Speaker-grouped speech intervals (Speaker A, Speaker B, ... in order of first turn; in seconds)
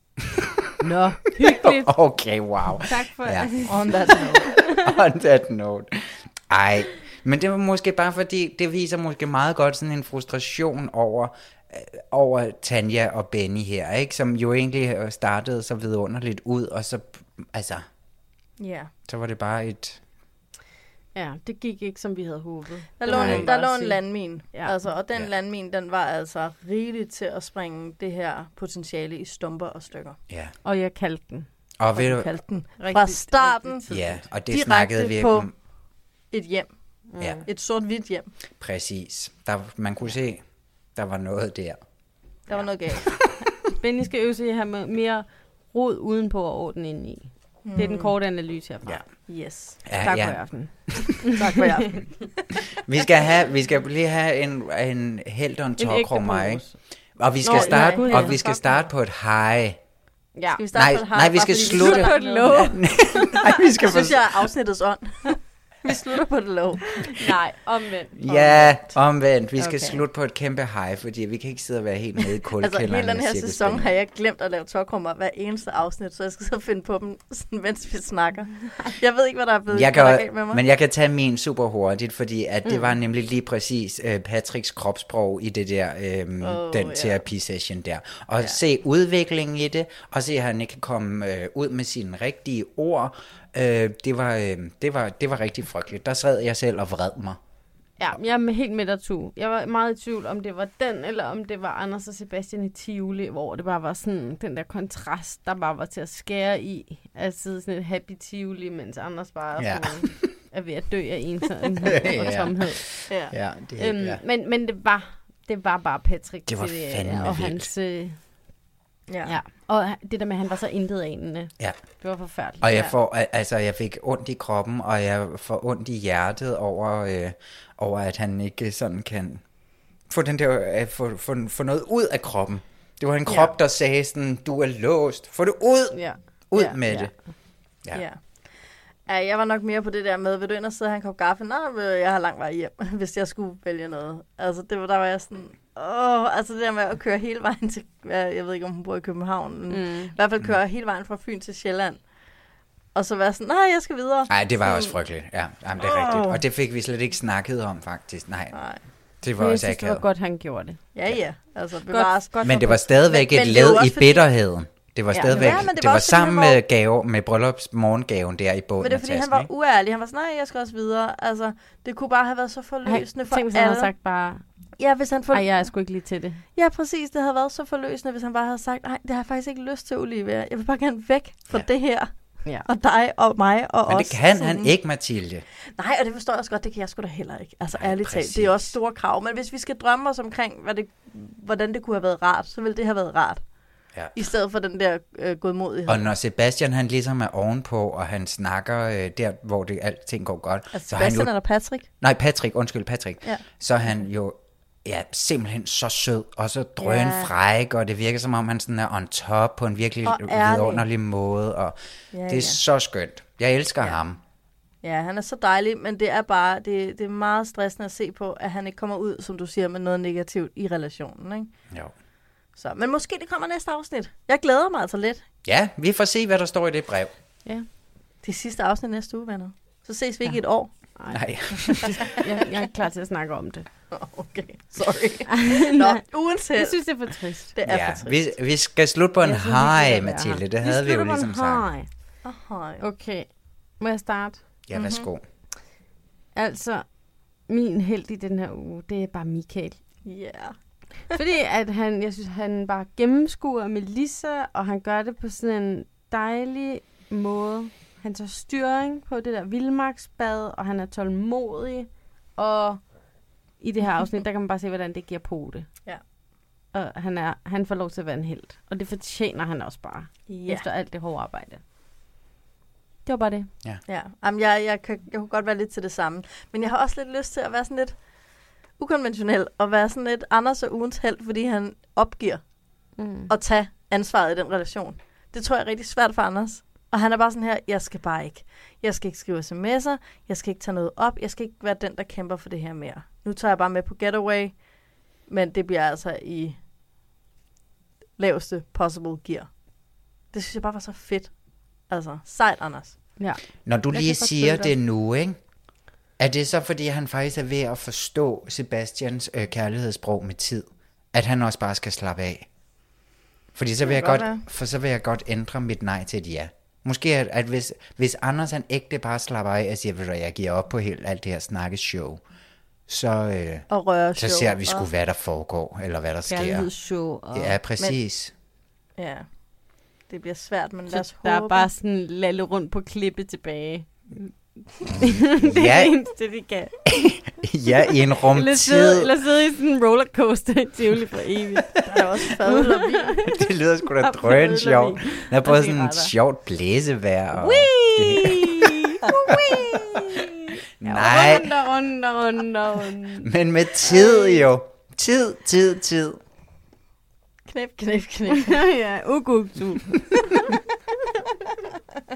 Speaker A: 0.8-2.0, 2.8-3.7, 21.1-24.7, 30.6-31.5, 32.8-34.2, 37.1-37.5, 43.7-49.0, 50.0-51.3, 55.8-56.8, 57.4-58.4, 60.4-60.6, 61.7-62.8, 67.1-68.7, 98.0-113.1, 113.8-118.2, 119.2-122.7, 135.9-137.2, 149.7-150.1, 159.4-160.8, 161.9-163.2, 172.9-174.4, 175.3-176.4, 230.9-233.7, 235.3-237.5, 239.2-241.9, 242.8-244.4, 246.3-246.9, 247.5-249.8, 251.1-262.9, 263.6-265.7, 266.7-271.6, 273.1-273.5, 283.0-283.3, 303.2-304.7, 326.3-327.6, 330.9-336.7, 338.3-341.8, 342.5-343.4, 344.0-346.1, 347.4-353.3, 358.5-360.4
Speaker B: 1.5-17.9, 19.1-20.0, 23.1-23.5, 30.3-30.5, 31.8-32.3, 33.9-35.5, 38.6-41.8, 49.9-51.1, 52.8-59.8, 60.7-64.5, 68.2-73.9, 79.7-97.4, 109.6-110.3, 111.8-114.2, 116.5-117.7, 122.6-129.4, 130.1-137.1, 154.3-158.7, 159.2-160.1, 162.4-169.5, 183.9-185.4, 187.7-188.7, 195.9-201.3, 202.0-211.8, 212.3-214.2, 225.5-227.1, 231.1-232.1, 237.7-241.7, 244.7-245.2, 303.6-305.4, 306.2-312.5, 313.6-322.2, 322.9-326.7, 327.3-328.3, 335.2-336.0, 336.9-339.1, 343.3-348.7, 350.8-351.5, 353.2-356.2
Speaker C: 3.7-4.5, 18.6-18.9, 23.0-30.2, 31.9-35.6, 36.3-38.3, 42.5-43.2, 47.6-48.1, 49.3-49.8, 51.2-52.5, 57.5-58.9, 60.6-67.2, 68.3-68.8, 69.6-70.0, 72.6-80.6, 86.4-87.2, 113.1-113.3, 119.1-119.3, 137.9-138.5, 139.1-152.1, 152.9-155.0, 155.8-156.4, 158.5-158.8, 160.9-162.3, 163.1-164.3, 165.1-166.6, 168.8-173.9, 174.8-175.7, 176.6-184.7, 185.8-193.4, 194.1-196.0, 200.7-201.9, 206.8-207.3, 210.1-210.8, 212.1-212.6, 214.8-221.5, 222.6-225.2, 228.2-231.0, 233.9-238.2, 242.2-242.8, 244.8-245.1, 250.1-251.1, 270.3-270.7, 273.9-278.0, 278.8-282.4, 283.3-294.6, 295.2-296.6, 298.2-299.6, 300.3-303.0, 313.9-314.4, 323.7-324.9, 329.0-329.3, 330.1-331.7, 341.8-343.2, 357.5-358.6